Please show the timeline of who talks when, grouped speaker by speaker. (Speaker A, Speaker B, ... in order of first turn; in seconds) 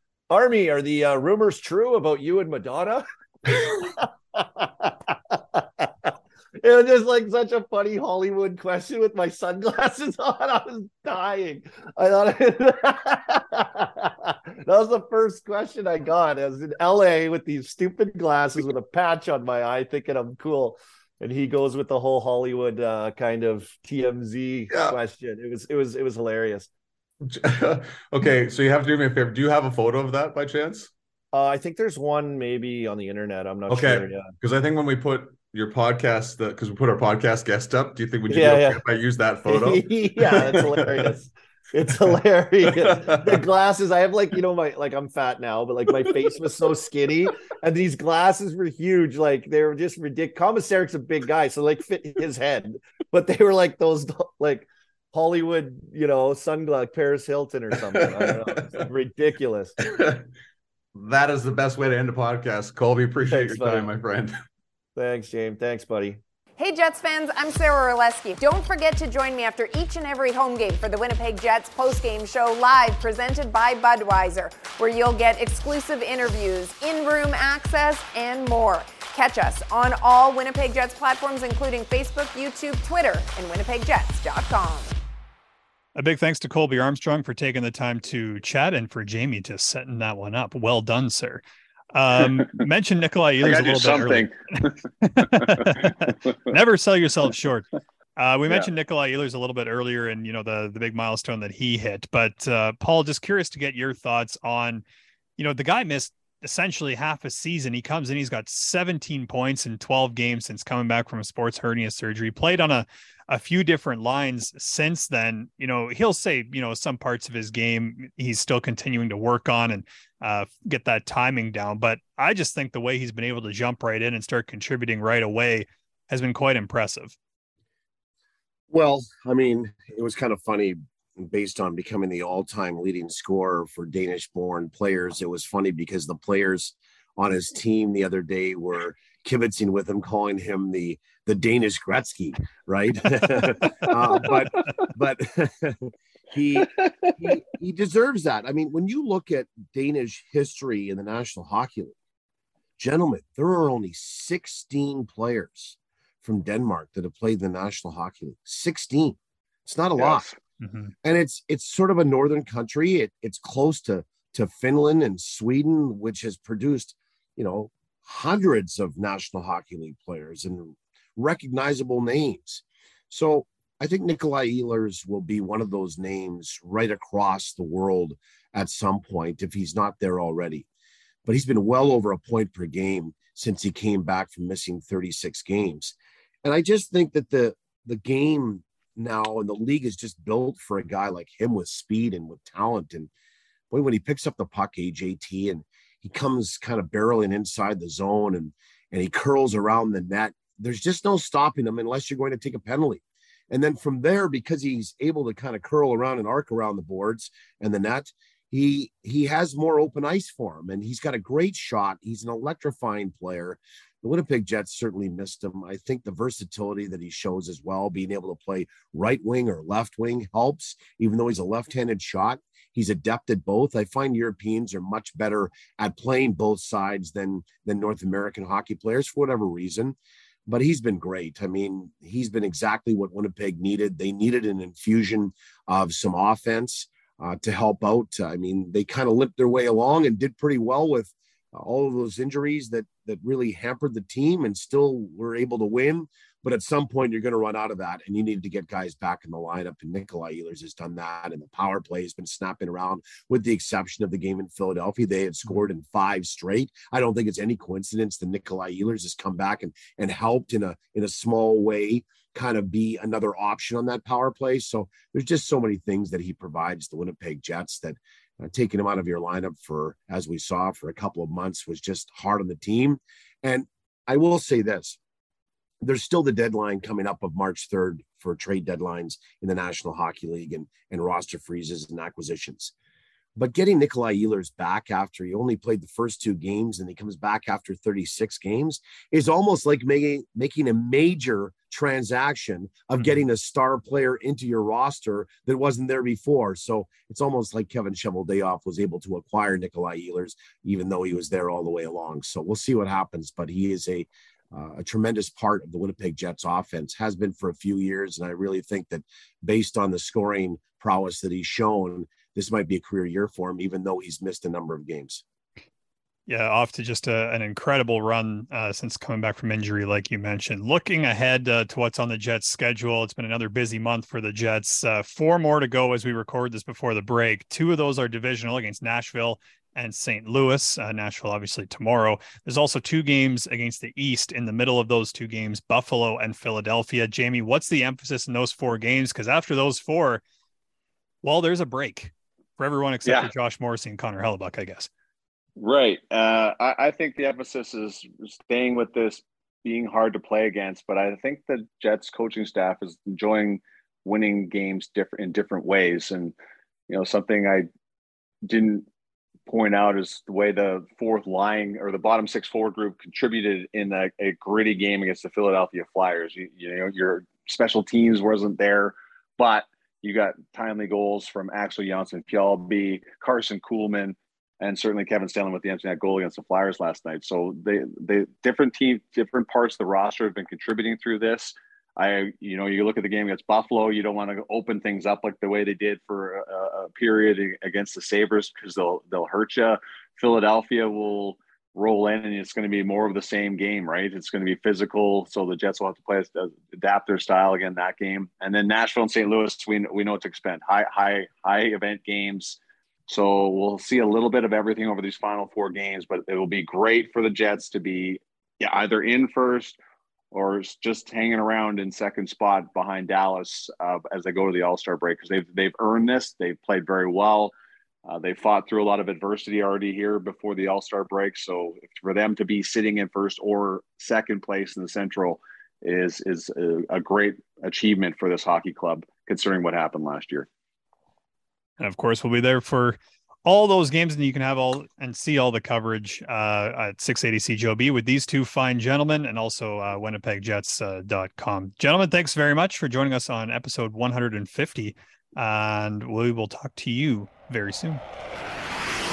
Speaker A: 0.3-6.1, 6.6-26.7, 31.3-34.3, 38.3-38.8, 39.5-59.7, 63.3-63.9, 65.0-66.2
Speaker B: 24.7-24.9, 27.2-30.9, 33.7-41.1, 42.7-43.4, 58.5-58.8, 59.9-60.2, 60.9-64.3
Speaker C: 66.6-85.0
Speaker D: 86.0-91.4, 91.9-104.8, 105.4-127.2, 160.6-160.9, 316.3-340.2, 341.2-344.9, 431.8-448.0
Speaker E: 93.4-94.8, 95.4-96.1, 146.8-147.1, 160.0-160.4, 343.0-343.3, 345.6-356.4, 356.9-357.7, 358.4-358.9, 359.4-409.8, 410.3-417.5, 418.0-430.5
Speaker F: 128.7-151.9, 152.8-160.3, 161.0-180.7, 181.2-193.1, 193.7-275.0, 275.8-282.7, 283.4-315.2